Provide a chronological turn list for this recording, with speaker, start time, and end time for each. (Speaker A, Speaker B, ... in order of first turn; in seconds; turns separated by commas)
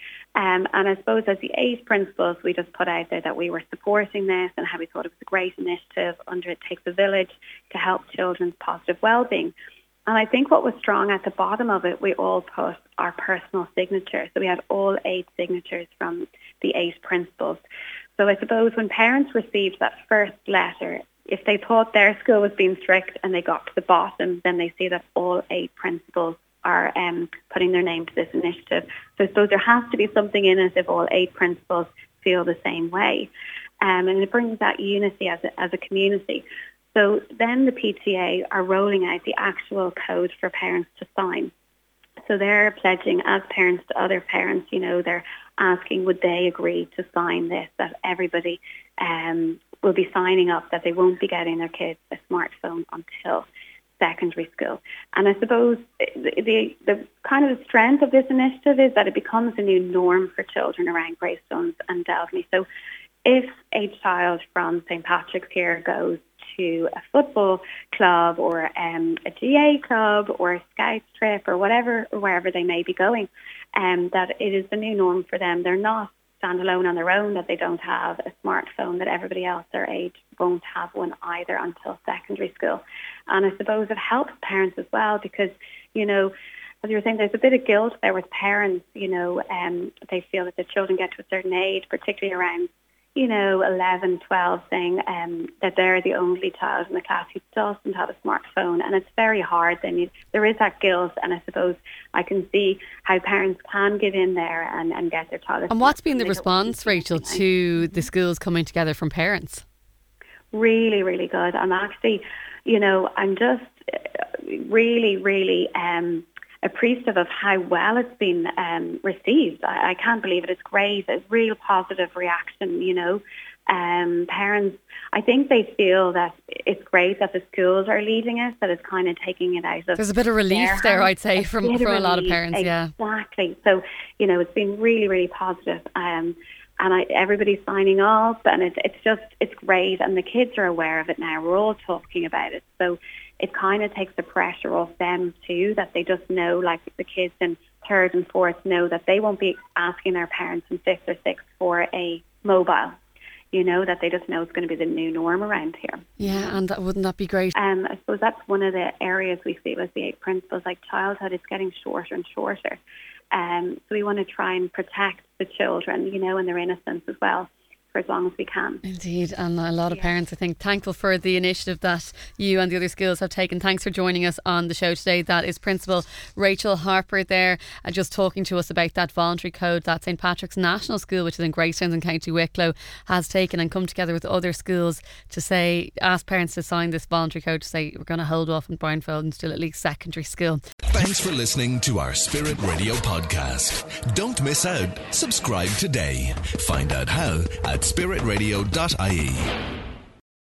Speaker A: 0.4-9.5, Speaker A: 10.1-17.6, Speaker A: 18.2-33.3, Speaker A: 33.8-41.5, Speaker A: 42.3-53.5, Speaker A: 54.0-62.7, Speaker A: 63.2-108.1, Speaker B: 105.7-109.6, Speaker A: 110.5-152.9, Speaker B: 130.0-132.9, Speaker A: 153.5-156.6, Speaker B: 156.2-157.6, Speaker A: 157.6-162.8, Speaker A: 163.3-168.8, Speaker B: 168.8-190.6, Speaker A: 169.9-170.1, Speaker C: 190.9-199.5